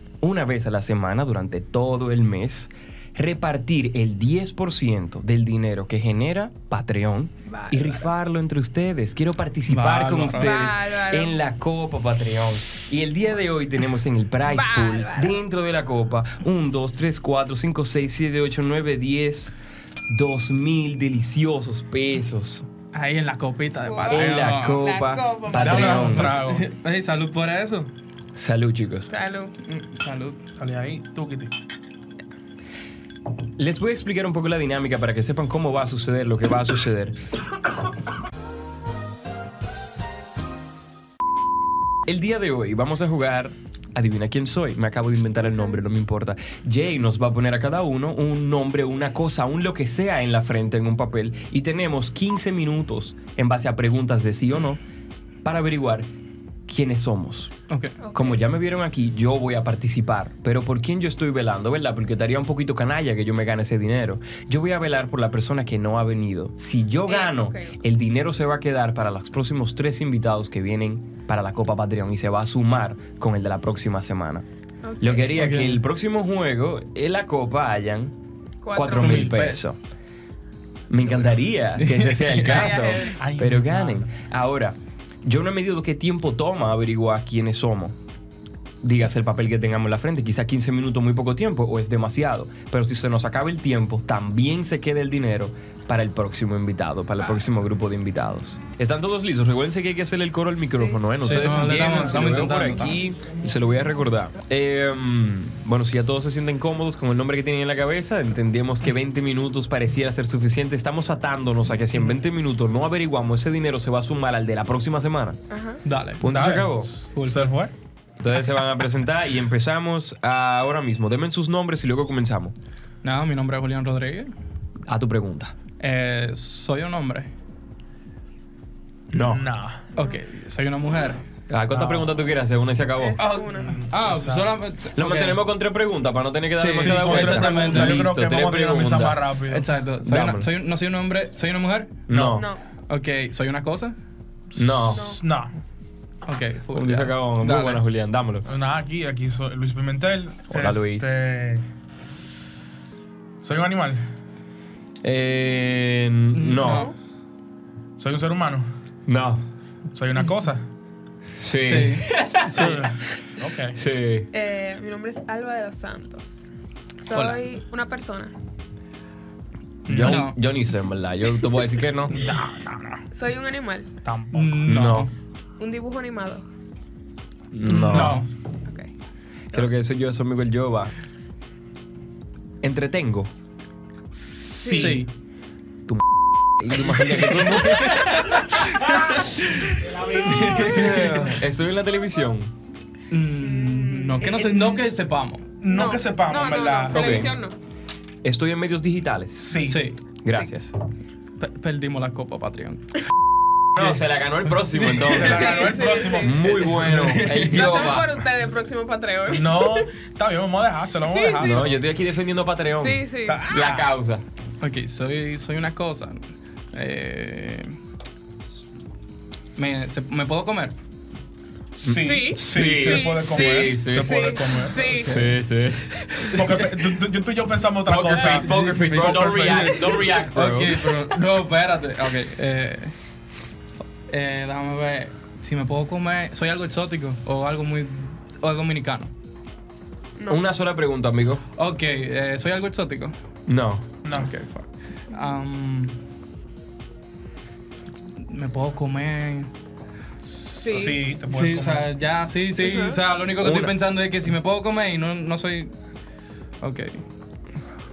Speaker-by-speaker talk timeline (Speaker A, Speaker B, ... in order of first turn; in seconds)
Speaker A: 0.2-19.5, 20.1-22.7, 24.1-26.4, 28.4-29.1, 33.6-37.2, 42.1-54.8, 55.4-56.1, 56.7-57.5, 58.1-74.5, 75.0-78.1, 78.7-79.8, 80.9-88.0, 88.8-115.4, 116.2-116.9, 118.2-122.5, 124.9-125.5, 129.1-129.4, 131.5-133.2, 134.9-139.2, 140.0-140.5, 142.1-142.5, 144.6-145.1, 146.7-148.5, 150.5-151.1, 155.0-156.9, 159.1-159.4, 161.3-162.8, 163.8-164.3, 169.9-172.2, 174.7-175.1, 177.5-178.2, 179.5-180.9, 182.6-183.3, 186.6-188.2, 190.6-192.5, 196.9-197.3, 198.2-199.6, 200.2-200.8, 203.8-208.2, 211.4-214.2, 221.8-224.3, 225.0-226.3, 227.9-230.9, 240.3-241.4, 243.5-243.9, 253.4-253.8
Speaker B: 7.5-8.1, 10.4-11.4, 14.4-15.4, 23.8-26.1, 29.1-29.5, 58.0-58.4, 67.1-67.7, 74.8-75.3, 78.6-79.3, 82.4-83.2, 100.7-101.0, 115.5-115.8, 130.0-130.2, 133.0-133.8, 142.3-142.6, 156.6-156.9, 164.3-166.3, 167.0-168.3, 173.1-173.9, 175.6-176.5, 184.6-185.0, 193.4-194.3, 195.7-197.6, 205.2-206.4, 207.4-209.9, 211.1-211.7, 212.7-213.5, 221.9-225.4, 250.6-251.0, 252.6-253.0
Speaker C: 9.7-10.6, 22.9-24.8, 25.9-27.9, 29.6-30.4, 57.7-58.0, 75.4-75.8, 78.9-79.6, 81.8-82.7, 101.2-103.0, 115.8-116.6, 117.1-117.5, 123.0-124.3, 125.8-127.3, 130.0-131.2, 133.2-135.4, 136.6-138.0, 139.5-142.0, 142.9-144.0, 146.2-147.8, 156.3-156.9, 161.6-163.0, 167.1-167.4, 170.0-170.3, 174.3-175.1, 177.6-178.3, 184.7-185.1, 187.2-191.4, 193.1-195.5, 199.7-200.0, 201.4-203.0, 214.6-217.8, 219.6-220.8, 224.9-225.3, 228.2-232.9, 234.1-239.1, 241.6-243.1, 244.1-246.0, 248.2-249.5, 250.9-255.7, 256.6-257.0
Speaker D: 25.6-26.6, 30.6-31.5, 83.2-84.1, 116.2-117.7, 129.1-129.8, 131.7-132.1, 133.6-134.5, 136.7-139.7, 142.1-142.4, 144.6-145.5, 148.4-151.7, 153.4-154.0, 158.0-158.7, 159.9-160.7, 162.5-163.8, 169.9-170.2, 172.1-173.0, 174.0-174.7, 177.8-178.3, 184.1-185.1, 186.8-187.7, 188.9-191.2, 194.2-194.9, 195.6-197.3, 199.4-199.9, 204.8-207.8, 209.3-211.7, 213.2-213.9, 221.8-225.1, 226.3-230.0, 244.0-244.3, 250.5-251.9